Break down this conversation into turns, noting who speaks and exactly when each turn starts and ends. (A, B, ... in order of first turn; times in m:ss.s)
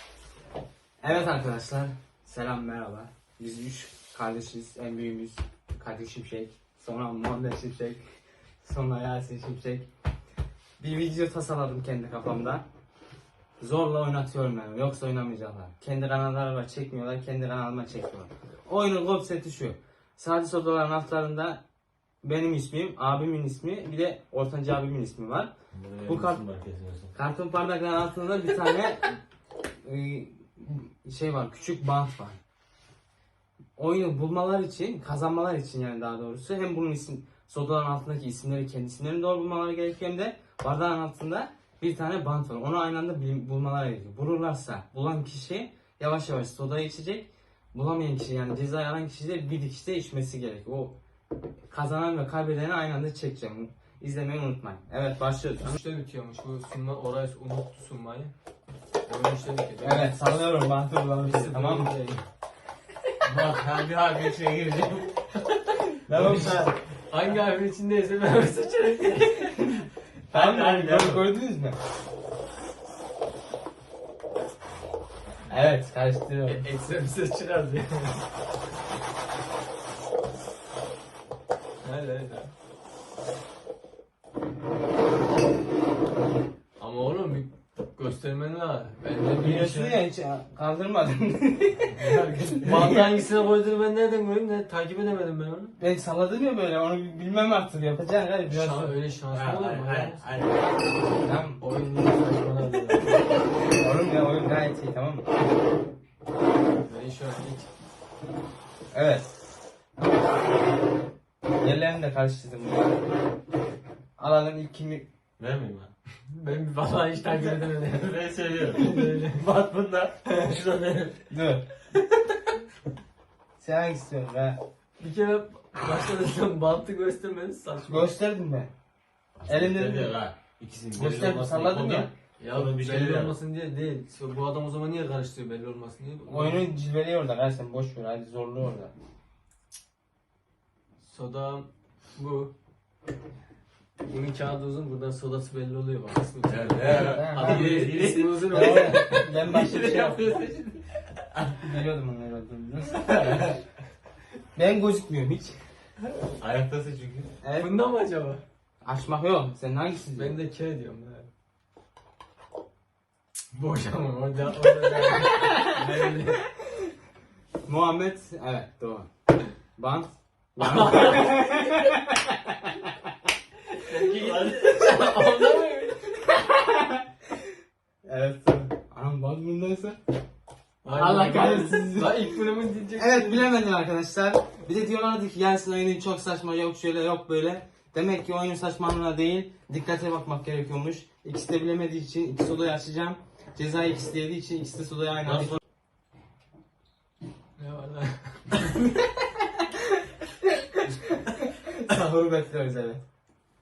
0:01.0-0:08.0 A
0:08.6-0:09.9 A
0:10.8-0:12.6 A
0:13.6-0:21.6 A
0:22.2-0:25.5 A
0:25.7-0:27.1 B
0:26.0-0:26.4 A
0:27.1-0:29.2 A
0:29.8-0:32.4 A
0:33.8-0:51.0 A
0:51.7-0:55.7 A
0:55.6-0:58.3 C
0:59.0-1:00.3 C
0:59.8-1:02.0 A
1:01.2-1:02.2 C
1:03.2-1:05.2 B
1:05.5-1:09.8 C
1:06.1-1:06.8 A
1:10.3-1:11.8 A
1:10.3-1:11.2 B
1:15.5-1:16.6 A
1:16.4-1:18.2 C
1:21.8-1:22.5 C
1:26.8-1:30.0 C
1:29.4-1:33.1 A
1:32.0-1:35.7 C
1:35.8-1:38.9 A
1:38.5-1:40.2 C
1:39.3-1:40.7 B
1:41.2-1:41.6 A
1:41.6-1:43.3 C
1:43.7-1:45.2 A
1:46.8-1:47.7 C
1:48.9-1:49.3 A
1:51.6-1:53.1 A
1:54.2-1:55.1 A
1:55.4-1:55.9 B
1:56.3-1:59.4 C
1:57.9-2:01.2 B
2:00.3-2:00.6 C
2:01.3-2:01.6 A
2:03.6-2:04.6 A
2:05.0-2:08.1 C
2:07.9-2:08.7 A
2:09.4-2:13.3 B
2:09.5-2:10.2 A
2:11.0-2:12.1 A
2:12.4-2:16.7 C
2:16.3-2:18.9 A
2:21.0-2:22.5 C
2:24.1-2:29.5 C
2:26.4-2:31.6 B
2:26.9-2:30.3 A
2:31.6-2:33.6 A
2:34.6-2:35.6 A
2:36.4-2:37.3 B
2:37.4-2:37.7 A
2:37.6-2:38.4 C
2:38.8-2:40.4 A
2:40.2-2:41.3 C
2:43.5-2:46.5 C
2:47.6-2:49.1 A
2:49.8-2:52.9 A
2:50.6-2:51.7 C
2:53.9-2:56.3 C
2:54.1-2:54.7 B
2:56.4-2:57.0 A
2:58.0-3:00.0 A
3:00.8-3:03.5 C
3:00.9-3:02.4 A
3:02.9-3:15.6 A
3:17.6-3:18.9 C
3:20.8-3:23.0 A